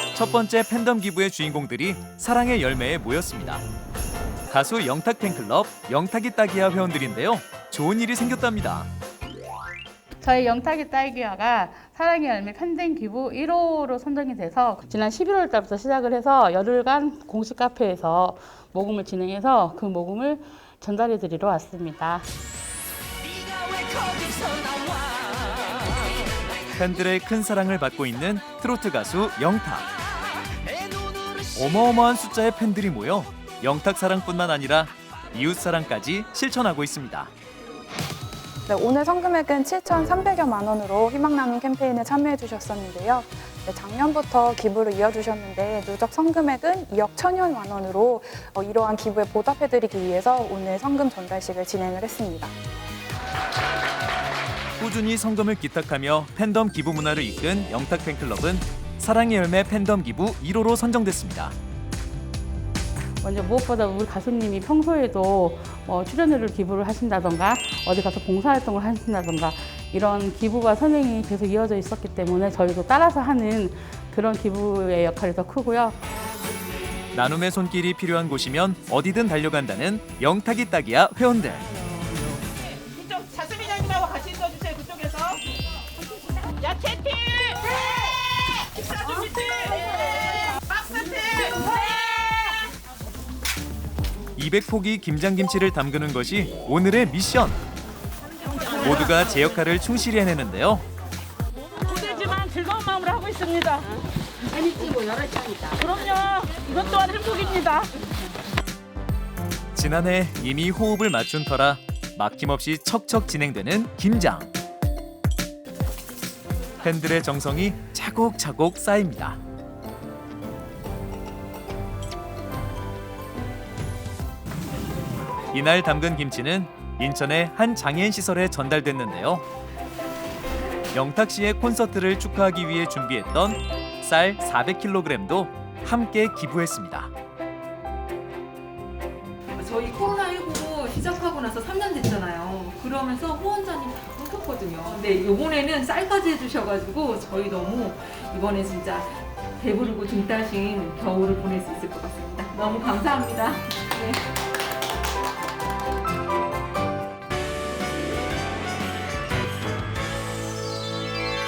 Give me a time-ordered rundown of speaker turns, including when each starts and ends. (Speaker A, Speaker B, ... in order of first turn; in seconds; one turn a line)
Speaker A: 0.1-3.6
Speaker A: 4.5-8.9
Speaker B: 10.2-22.2
Speaker A: 26.8-29.9
Speaker A: 31.5-37.3
Speaker C: 38.7-52.5
Speaker A: 54.8-61.6
Speaker B: 63.2-76.0
Speaker A: 77.1-81.7
Speaker D: 83.0-85.4
Speaker D: 86.6-87.5
Speaker A: 94.4-97.6
Speaker A: 98.8-100.8
Speaker D: 101.8-103.8
Speaker D: 105.7-107.8
Speaker A: 109.8-114.5
Speaker A: 116.8-119.4
Speaker A: 125.5-129.4
Speaker A: 130.9-137.1
Speaker E: 139.6-154.2